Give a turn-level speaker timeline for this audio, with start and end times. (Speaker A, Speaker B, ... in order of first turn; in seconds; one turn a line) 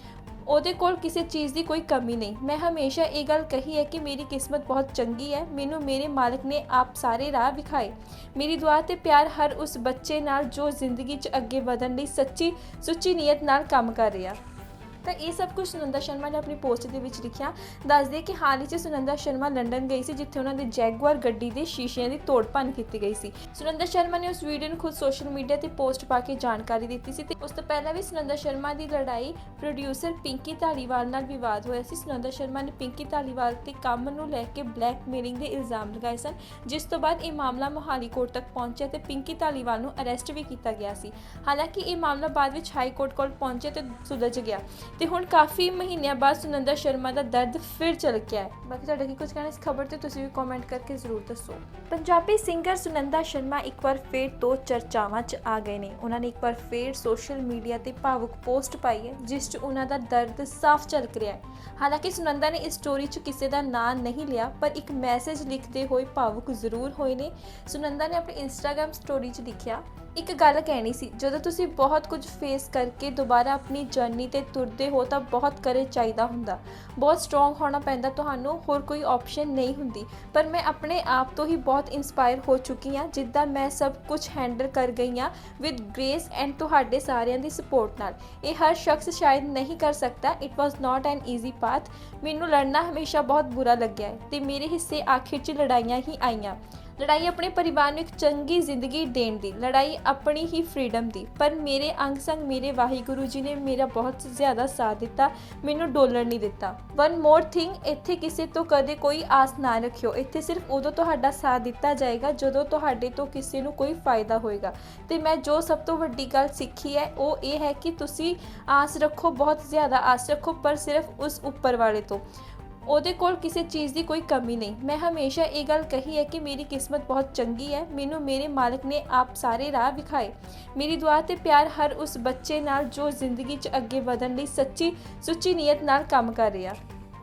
Speaker A: 0.5-14.4
Speaker A: 15.0-122.2
Speaker A: 122.9-136.8